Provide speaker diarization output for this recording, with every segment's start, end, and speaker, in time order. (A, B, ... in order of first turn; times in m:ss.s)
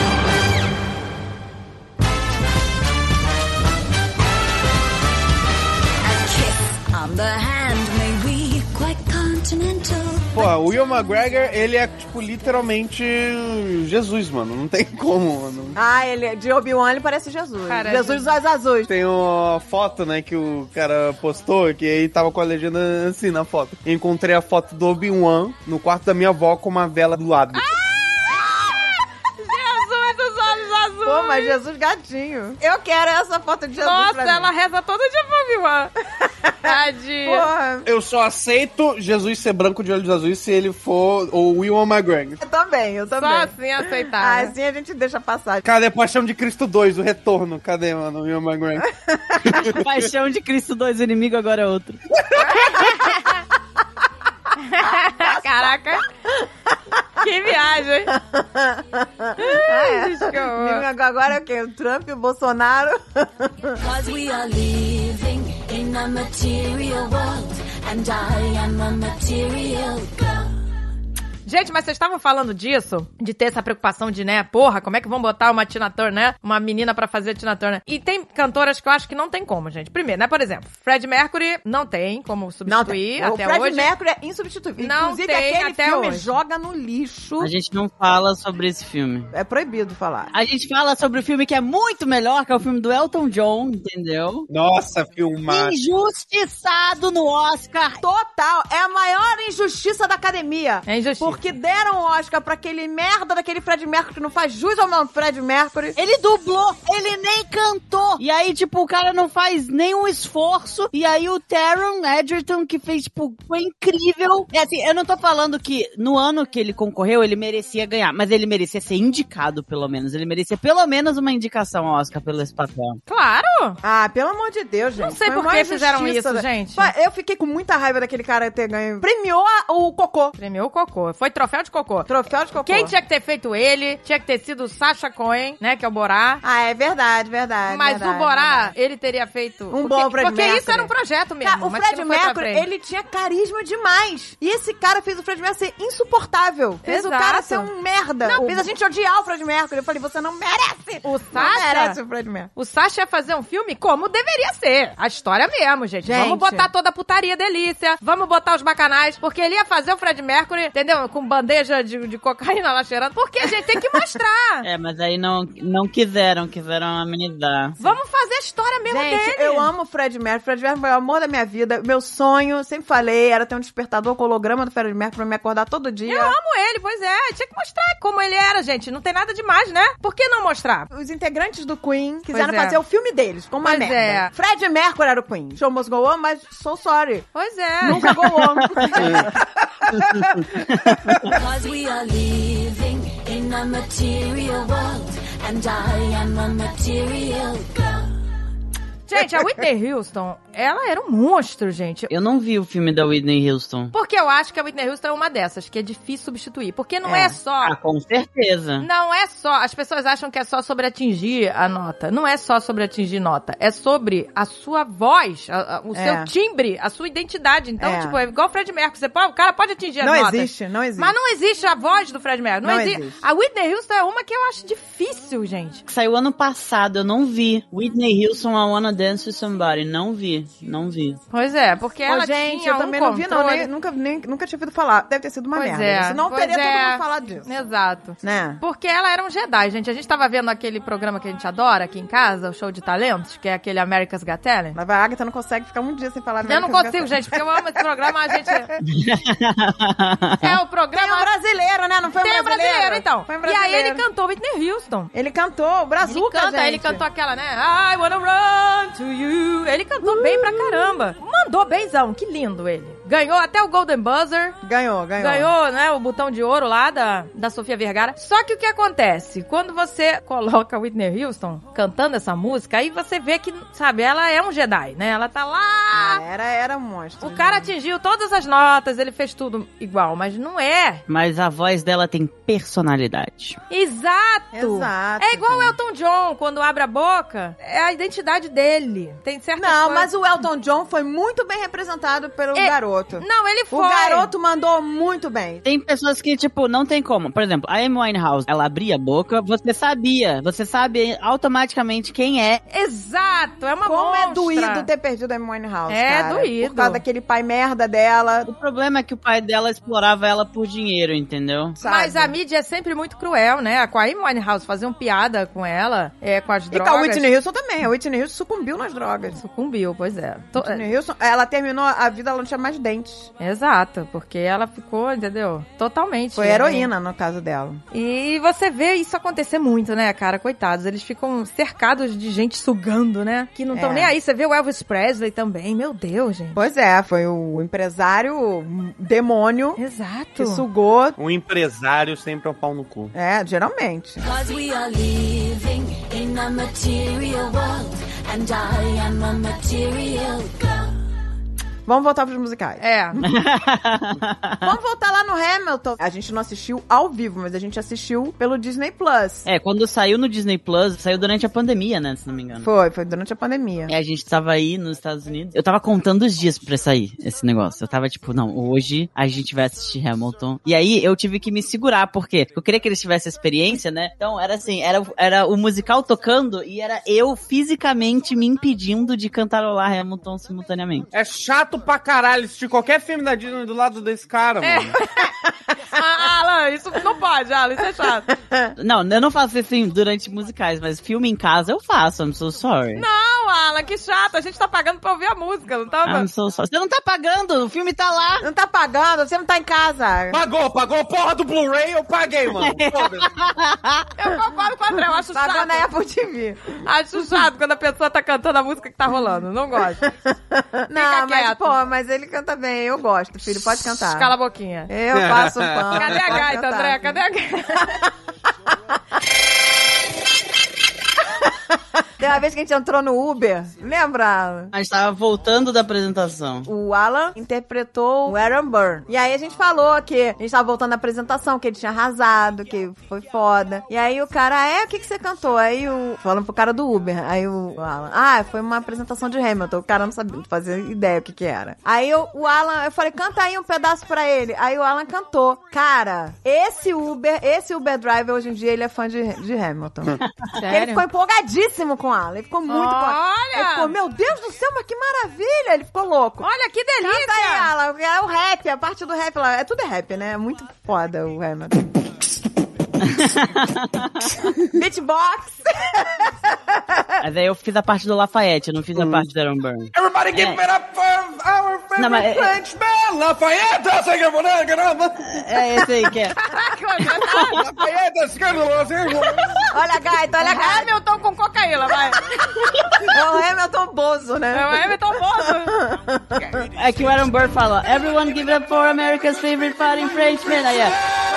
0:06.0-0:10.4 A
0:10.3-0:15.8 B
0:15.7-0:18.9 C
0:17.7-0:18.3 D
0:18.9-0:27.7 B
0:27.5-0:28.8 D
0:29.4-0:31.6 D
0:31.0-0:34.5 C
0:33.8-0:35.9 D
0:36.2-0:37.9 C
0:36.6-0:37.5 D
0:37.8-0:42.4 B
0:42.4-0:45.6 C
0:43.2-0:44.5 D
0:45.6-0:49.8 B
0:48.9-0:49.6 C
0:49.7-0:52.0 E
0:52.4-0:53.4 D
0:54.6-0:56.0 D
0:55.2-0:55.7 C
0:57.2-0:58.1 D
0:58.1-1:03.8 C
0:59.4-1:00.8 D
1:03.8-1:10.5 A
1:11.4-1:23.9 D
1:22.6-1:27.5 C
1:24.8-1:26.3 D
1:27.4-1:29.3 E
1:29.3-1:30.3 C
1:30.3-1:34.5 E
1:34.5-1:35.7 B
1:35.5-1:38.0 E
1:38.0-1:46.0 C
1:40.9-1:41.4 D
1:46.0-2:03.0 E
2:03.1-2:03.8 D
2:03.8-2:10.3 C
2:05.0-2:06.9 D
2:10.4-2:12.1 D
2:12.1-2:12.9 C
2:12.6-2:16.4 D
2:16.4-2:18.7 C
2:17.7-2:22.7 D
2:19.7-2:32.5 C
2:26.8-2:27.7 D
2:28.2-2:28.7 D
2:31.0-2:32.0 D
2:32.6-2:44.6 D
2:36.0-2:36.7 C
2:44.6-2:47.8 E
2:47.8-2:49.7 D
2:48.9-2:56.4 C
2:56.0-3:00.9 D
3:00.9-3:07.3 C
3:02.3-3:02.8 D
3:03.6-3:04.3 D
3:07.3-3:08.1 D
3:07.8-3:10.1 C
3:08.1-3:09.0 E
3:10.2-3:11.1 E
3:11.3-3:18.1 A
3:19.1-3:22.1 D
3:22.1-3:23.9 E
3:23.9-3:27.7 D
3:27.0-3:27.4 C
3:27.6-3:28.8 E
3:28.8-3:45.8 D
3:35.9-3:36.3 C
3:37.8-3:38.2 C
3:40.0-3:41.1 C
3:42.6-3:43.2 C
3:45.9-3:51.2 E
3:51.3-3:53.7 D
3:52.0-3:57.5 C
3:55.5-4:04.8 D
3:58.2-3:58.6 C
4:04.7-4:07.8 C
4:06.4-4:08.7 D
4:08.9-4:10.4 E
4:10.4-4:11.3 D
4:10.9-4:14.0 C
4:12.2-4:15.1 D
4:15.1-4:17.0 C
4:16.0-4:24.6 D
4:20.0-4:21.0 C
4:24.6-4:25.5 C
4:25.2-4:36.2 D
4:35.9-4:37.7 C
4:37.2-4:41.0 D
4:41.1-4:43.6 E
4:43.7-4:50.1 D
4:44.5-4:45.7 C
4:49.6-4:55.6 C
4:52.5-4:54.3 D
4:55.6-5:02.6 E
5:02.7-5:04.9 D
5:03.8-5:08.5 C
5:05.9-5:07.0 D
5:08.4-5:11.8 E
5:11.8-5:12.3 C
5:11.8-5:17.3 D
5:16.7-5:19.4 C
5:19.3-5:20.8 D
5:20.5-5:23.3 C
5:23.4-5:26.9 D
5:26.3-5:27.8 C
5:27.9-5:36.6 D
5:33.7-5:34.1 C
5:36.5-5:39.8 C
5:39.8-5:40.6 D
5:40.4-5:41.2 C
5:41.2-5:43.1 B
5:43.1-5:44.2 C
5:44.2-5:50.9 A
5:51.8-5:52.8 C
5:52.8-5:53.2 D
5:53.2-5:54.6 E
5:54.6-5:59.4 C
5:59.4-6:02.7 E
6:02.6-6:03.9 C
6:03.9-6:21.1 E
6:21.1-6:25.0 B
6:24.6-6:25.3 D
6:25.9-6:28.3 D
6:28.0-6:28.7 C
6:28.8-6:33.0 E
6:33.0-6:36.3 D
6:36.0-6:38.5 E
6:38.4-6:40.4 C
6:40.3-6:43.3 B
6:42.6-6:44.0 E
6:44.2-6:45.8 D
6:45.3-6:46.8 C
6:46.8-6:50.0 D
6:50.2-6:54.3 C
6:50.9-6:51.8 D
6:53.8-6:54.9 D
6:54.9-6:57.2 C
6:55.1-6:56.2 B
6:55.9-6:58.0 D
7:02.2-7:04.7 C
7:04.7-7:06.7 E
7:06.6-7:36.5 C
7:30.5-7:31.0 D
7:32.7-7:33.9 D
7:36.4-7:37.7 D
7:37.0-7:42.0 C
7:43.0-7:44.5 E
7:44.7-7:47.2 C
7:47.2-7:50.6 E
7:49.0-7:49.3 B
7:49.9-7:55.8 B
7:52.0-7:52.5 E
7:55.3-7:56.3 E
7:56.4-7:57.6 D
7:57.3-7:57.6 E
7:57.5-7:59.6 B
7:59.7-8:00.9 C
8:00.4-8:02.3 D
8:03.1-8:06.7 C
8:04.5-8:05.8 D
8:06.7-8:11.0 E